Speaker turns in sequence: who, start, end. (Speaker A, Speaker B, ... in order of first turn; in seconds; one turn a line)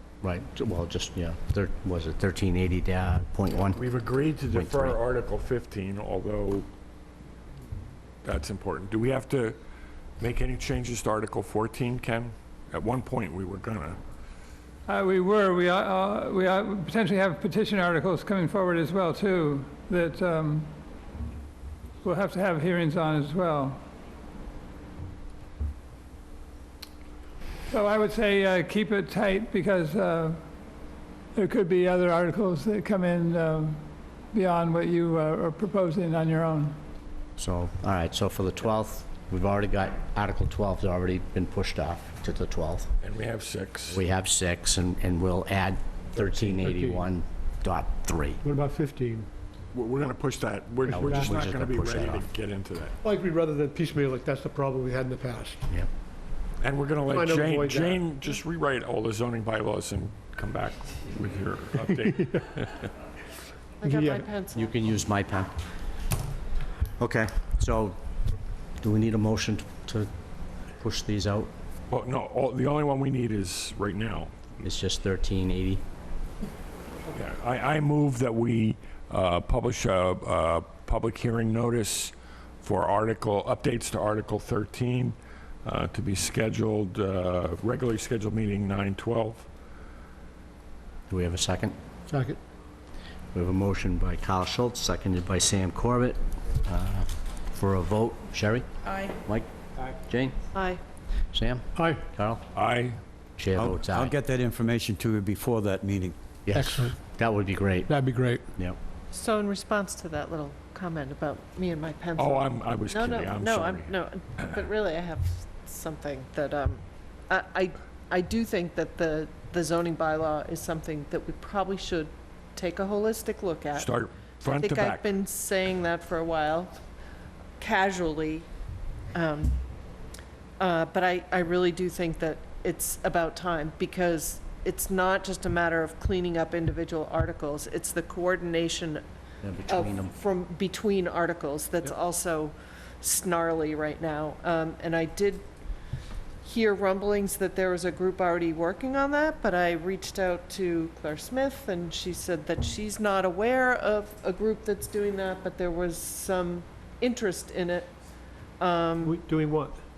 Speaker A: 0.2-3.8
Speaker B: 3.8-6.7
Speaker A: 4.5-5.0
Speaker B: 8.2-9.6
Speaker B: 10.2-14.0
Speaker C: 14.8-20.7
Speaker C: 22.0-23.8
Speaker C: 27.7-30.5
Speaker C: 31.3-36.8
Speaker A: 37.4-42.9
Speaker B: 43.0-44.0
Speaker A: 43.9-48.4
Speaker D: 46.1-47.1
Speaker D: 48.4-49.3
Speaker B: 49.7-52.9
Speaker D: 50.9-51.5
Speaker A: 50.9-52.3
Speaker D: 53.0-55.7
Speaker B: 56.6-62.9
Speaker D: 57.0-58.1
Speaker D: 62.0-62.4
Speaker E: 63.8-64.8
Speaker D: 63.8-64.3
Speaker A: 64.5-65.6
Speaker A: 67.0-68.0
Speaker A: 68.8-70.1
Speaker A: 70.8-71.5
Speaker B: 71.9-74.4
Speaker A: 74.6-75.8
Speaker B: 77.1-89.5
Speaker A: 91.1-91.8
Speaker D: 92.1-92.4
Speaker A: 93.3-100.4
Speaker E: 100.5-100.8
Speaker A: 101.3-102.5
Speaker D: 101.8-102.0
Speaker B: 102.5-103.0
Speaker A: 103.4-104.1
Speaker F: 103.5-106.1
Speaker A: 106.5-107.9
Speaker D: 106.5-107.0
Speaker D: 107.9-108.5
Speaker E: 109.1-126.8
Speaker B: 112.2-113.9
Speaker B: 123.7-125.1
Speaker E: 127.6-128.5
Speaker E: 129.1-129.6
Speaker E: 130.6-139.0
Speaker A: 139.4-140.1
Speaker E: 139.7-145.4
Speaker E: 146.4-157.9
Speaker E: 158.6-159.2
Speaker D: 159.0-159.8